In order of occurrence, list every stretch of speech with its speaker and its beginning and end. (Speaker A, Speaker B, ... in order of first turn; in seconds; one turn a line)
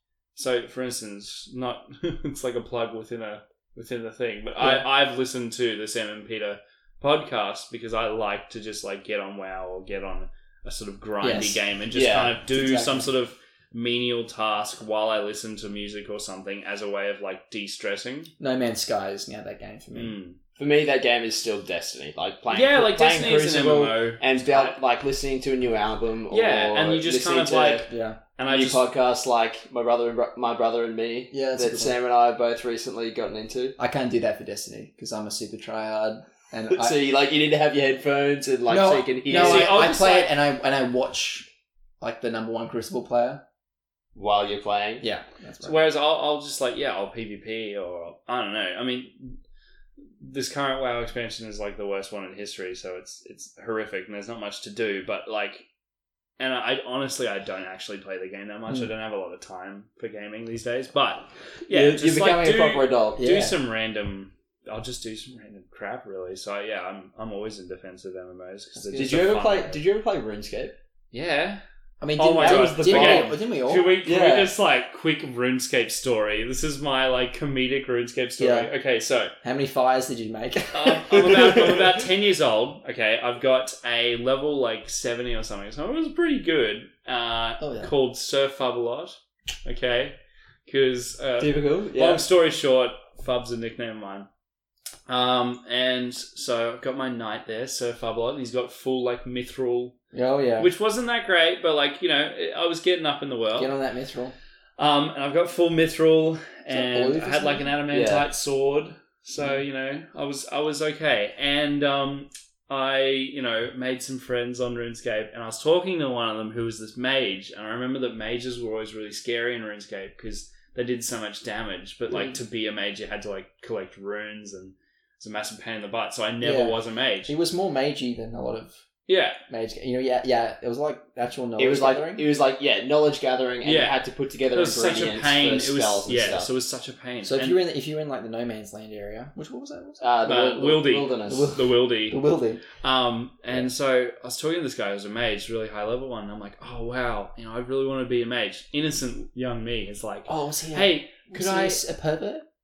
Speaker A: 0.4-18.3
Speaker B: 4.6-4.9
Speaker B: 11.2-11.6
Speaker C: 11.9-12.4
Speaker B: 12.5-13.1
Speaker B: 18.4-20.2
Speaker A: 19.9-20.4
Speaker C: 20.6-27.9
Speaker A: 22.5-24.8
Speaker A: 26.3-28.8
Speaker B: 27.9-28.2
Speaker C: 28.5-33.8
Speaker B: 31.3-32.0
Speaker B: 33.8-37.0
Speaker C: 36.7-39.8
Speaker B: 38.7-41.5
Speaker A: 39.3-40.4
Speaker B: 42.0-43.4
Speaker C: 44.1-45.0
Speaker B: 45.0-45.9
Speaker A: 45.6-49.4
Speaker A: 50.2-55.6
Speaker A: 56.4-69.8
Speaker C: 61.7-63.2
Speaker B: 63.2-63.6
Speaker B: 68.8-69.0
Speaker C: 68.9-70.8
Speaker A: 71.1-71.6
Speaker B: 72.0-73.9
Speaker A: 72.2-79.3
Speaker C: 72.4-73.4
Speaker C: 74.0-74.5
Speaker B: 78.4-78.7
Speaker B: 79.4-81.8
Speaker A: 80.7-94.3
Speaker B: 87.6-87.9
Speaker C: 91.4-92.3
Speaker A: 95.1-100.0
Speaker B: 100.1-100.7
Speaker A: 100.6-103.7
Speaker B: 103.5-104.3
Speaker A: 104.8-127.3
Speaker B: 106.7-107.7
Speaker C: 107.9-108.3
Speaker B: 122.1-122.4
Speaker B: 126.4-128.8
Speaker A: 129.1-129.4
Speaker B: 129.5-132.2
Speaker C: 131.6-136.5
Speaker A: 133.6-134.0
Speaker A: 134.5-137.6
Speaker B: 137.2-140.1
Speaker C: 140.0-141.5
Speaker A: 140.2-142.2
Speaker B: 141.3-142.6
Speaker A: 142.8-151.8
Speaker B: 150.3-152.4